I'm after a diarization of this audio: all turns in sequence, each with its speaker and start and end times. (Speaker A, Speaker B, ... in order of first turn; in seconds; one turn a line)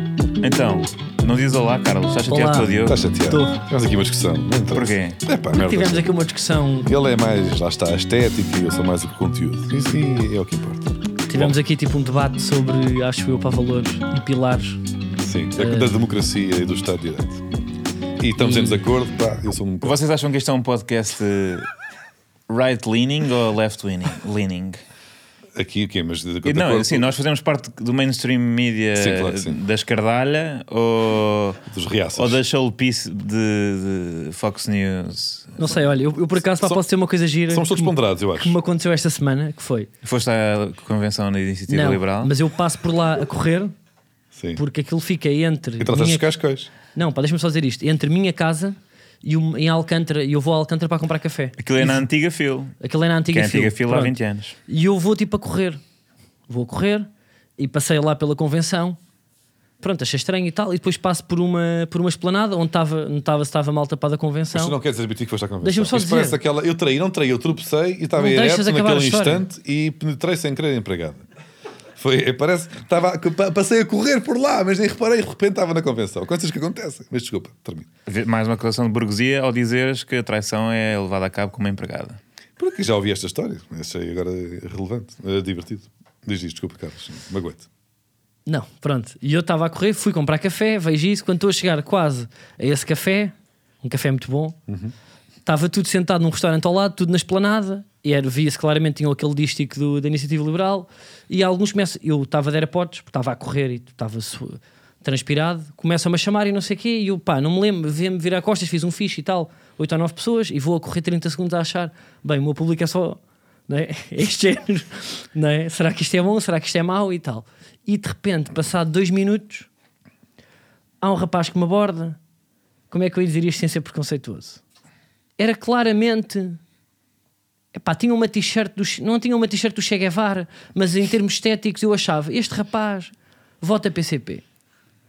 Speaker A: 0.4-3.0
Speaker B: 2.3-2.7
Speaker C: 2.9-6.1
Speaker B: 3.3-3.6
Speaker A: 4.7-5.2
Speaker B: 5.5-6.9
Speaker C: 6.8-11.5
Speaker B: 11.3-14.8
Speaker C: 15.2-17.4
Speaker B: 15.6-15.9
Speaker C: 18.2-20.0
Speaker B: 18.4-18.8
Speaker A: 19.8-21.7
Speaker A: 22.5-24.8
Speaker C: 25.5-27.1
Speaker A: 26.4-31.6
Speaker C: 28.9-29.6
Speaker C: 31.7-32.4
Speaker A: 32.1-35.6
Speaker B: 35.6-39.9
Speaker C: 37.5-38.5
Speaker A: 40.0-42.3
Speaker B: 41.7-43.7
Speaker C: 44.3-44.6
Speaker B: 44.5-46.2
Speaker C: 45.8-46.7
Speaker B: 46.9-52.0
Speaker A: 51.6-52.8
Speaker B: 52.8-54.1
Speaker A: 53.3-54.5
Speaker B: 54.7-55.8
Speaker B: 56.5-59.0
Speaker B: 59.8-64.8
Speaker C: 64.5-71.2
Speaker B: 65.6-66.4
Speaker B: 68.1-69.4
Speaker C: 72.0-77.9
Speaker A: 78.1-82.2
Speaker C: 82.6-87.6
Speaker B: 88.5-94.6
Speaker C: 94.7-94.9
Speaker B: 95.4-119.7
Speaker B: 121.0-122.2
Speaker B: 122.9-124.6
Speaker B: 125.4-126.6
Speaker B: 127.7-134.4